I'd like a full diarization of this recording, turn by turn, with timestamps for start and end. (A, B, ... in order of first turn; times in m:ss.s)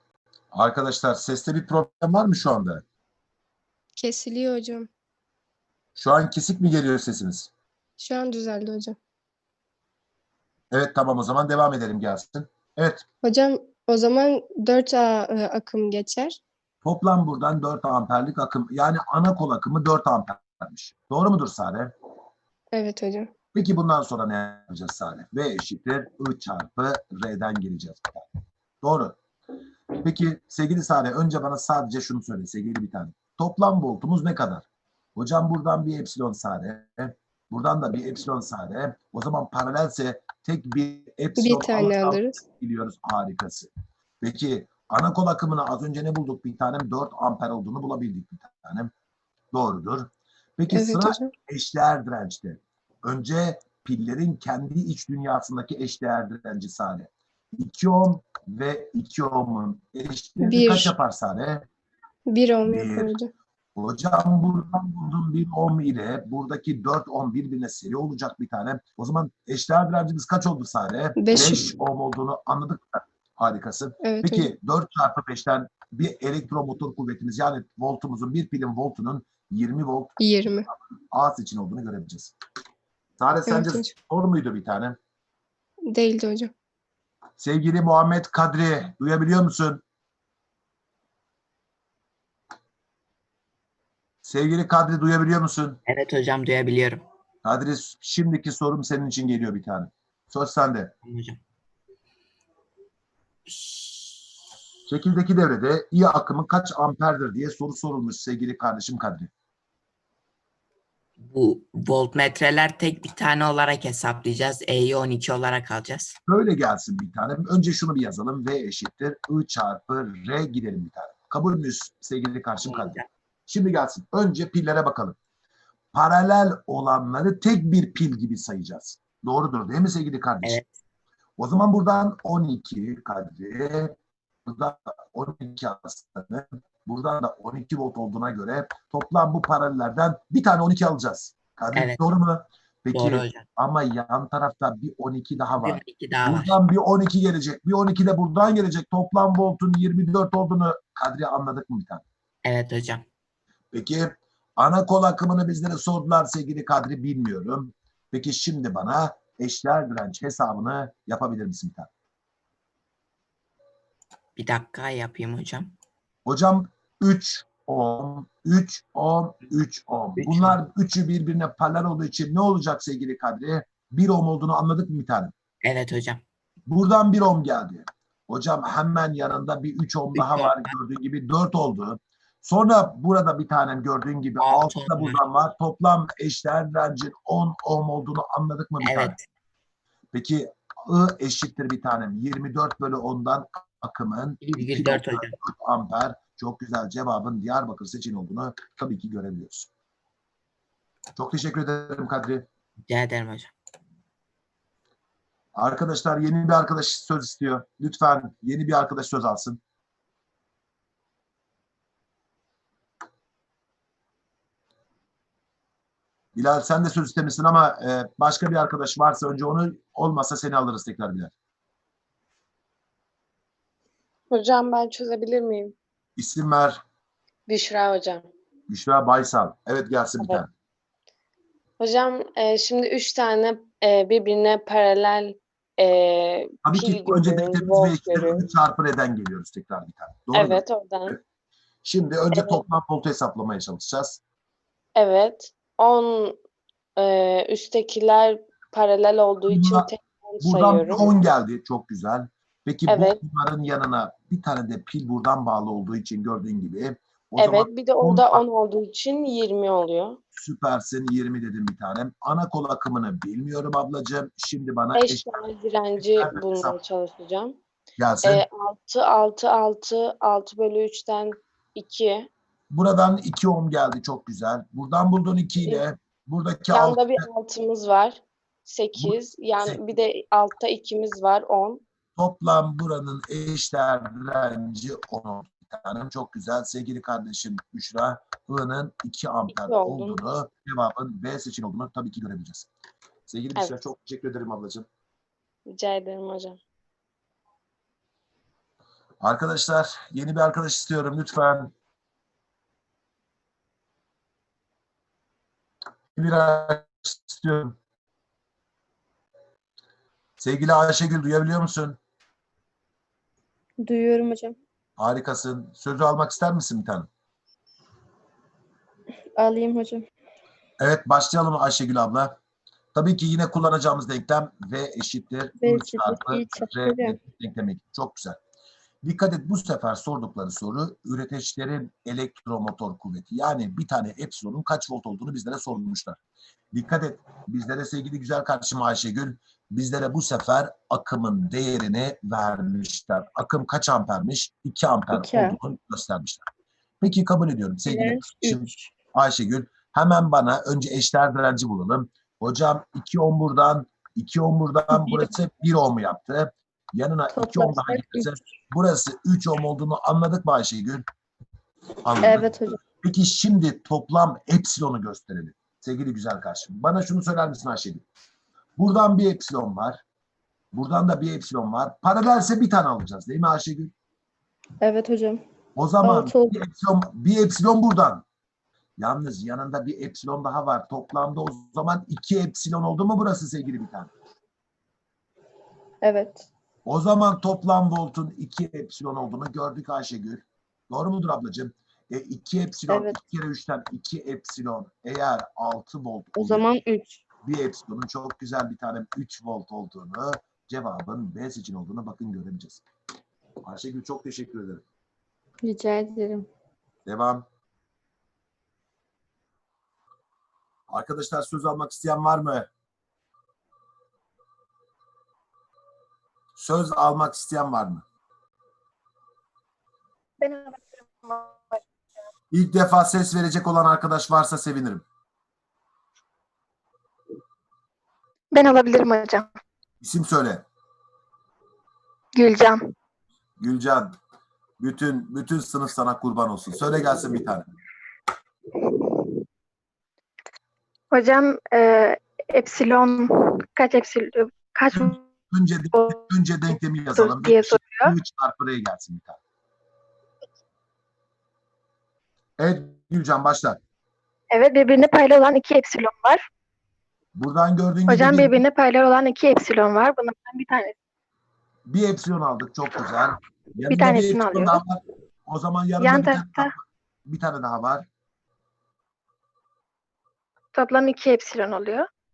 0:00.5-0:02.8 A
0:04.0-0:04.9 B
0:06.0-0:07.5 A
0:08.0-0:09.0 B
0:10.7-0:13.0 A
0:13.2-0:16.4 B
0:16.8-0:21.9 A
0:22.7-0:23.3 B
0:23.5-0:28.3 A
0:28.8-0:29.2 A
0:30.0-0:34.6 A
0:35.2-0:43.7 A
0:41.4-0:42.4 B
0:44.2-0:48.9 A
0:49.5-1:01.7 A
0:50.7-0:51.3 B
1:00.4-1:00.9 B
1:02.3-1:03.3 B
1:02.6-1:03.1 A
1:03.8-1:22.3 A
1:11.2-1:11.7 B
1:14.0-1:14.5 B
1:20.2-1:20.7 B
1:23.2-1:25.0 A
1:23.5-1:23.9 B
1:25.9-1:26.5 B
1:27.4-1:29.8 A
1:34.2-1:35.8 A
1:35.9-1:37.0 C
1:37.4-1:40.9 A
1:41.0-1:41.4 C
1:44.9-1:49.3 A
1:51.2-1:56.2 C
1:56.3-2:05.2 A
2:02.6-2:03.1 C
2:05.9-2:10.6 A
2:10.4-2:10.8 C
2:11.4-2:32.0 A
2:21.8-2:22.0 C
2:22.9-2:23.5 C
2:25.6-2:26.6 C
2:32.4-2:33.1 C
2:33.7-2:41.9 A
2:44.4-2:45.7 C
2:46.3-2:55.3 A
2:50.2-2:50.6 C
2:55.6-2:56.2 C
2:56.7-3:09.2 A
3:00.1-3:00.7 C
3:04.4-3:05.2 C
3:08.8-3:09.2 C
3:10.1-3:19.7 A
3:14.5-3:15.4 C
3:21.2-3:22.5 A
3:22.9-3:23.5 C
3:25.6-3:29.6 A
3:36.4-3:41.3 A
3:44.3-3:45.8 D
3:46.2-3:46.8 A
3:47.5-3:48.3 D
3:48.7-3:50.5 A
3:51.8-3:58.5 D
3:56.6-4:01.2 A
4:00.3-4:01.2 D
4:01.8-4:04.2 A
4:02.3-4:02.6 D
4:05.0-4:06.4 D
4:07.0-4:11.1 D
4:09.5-4:18.4 A
4:12.9-4:13.2 D
4:17.4-4:20.2 D
4:20.4-4:25.3 A
4:25.0-4:27.6 D
4:26.0-4:26.8 A
4:28.0-4:28.4 A
4:28.2-4:32.3 D
4:32.7-4:37.3 A
4:36.7-4:41.8 D
4:39.0-4:39.9 A
4:42.2-4:52.7 A
4:49.5-4:50.2 D
4:53.3-4:54.9 A
4:55.7-4:56.6 D
4:59.2-5:01.7 A
5:06.2-5:07.8 A
5:10.4-5:12.0 A
5:13.8-5:14.5 B
5:15.0-5:17.1 A
5:19.4-5:20.0 B
5:20.8-5:22.4 A
5:22.9-5:28.4 A
5:25.6-5:27.2 B
5:29.0-5:36.2 A
5:36.7-5:46.5 A
5:45.1-5:45.6 B
5:47.0-6:01.0 A
5:48.0-5:48.6 B
5:57.6-5:58.0 E
6:02.0-6:08.0 A
6:02.4-6:02.7 B
6:08.8-6:10.0 A
6:10.7-6:13.9 A
6:14.8-6:15.4 B
6:15.8-6:18.2 A
6:16.0-6:16.6 B
6:19.0-6:24.1 A
6:26.0-6:26.4 B
6:26.9-6:36.7 A
6:36.4-6:37.1 B
6:37.4-6:42.8 A
6:43.6-6:44.8 A
6:45.6-6:46.5 B
6:47.1-6:47.5 A
6:50.9-6:52.7 A
6:56.6-6:58.0 A
7:00.4-7:01.8 E
7:02.5-7:05.0 A
7:08.5-7:09.5 E
7:10.0-7:10.6 A
7:12.4-7:12.8 E
7:13.6-7:14.2 A
7:14.8-7:17.7 A
7:18.8-7:19.4 E
7:21.1-7:25.2 E
7:24.9-7:29.4 A
7:25.9-7:26.2 E
7:27.2-7:28.1 E
7:32.6-7:33.8 A
7:34.5-7:36.4 E
7:37.4-7:38.6 A
7:38.1-7:40.9 E
7:41.9-7:46.8 A
7:43.9-7:44.8 E
7:46.0-7:46.7 E
7:47.3-7:48.1 A
7:50.7-7:52.1 E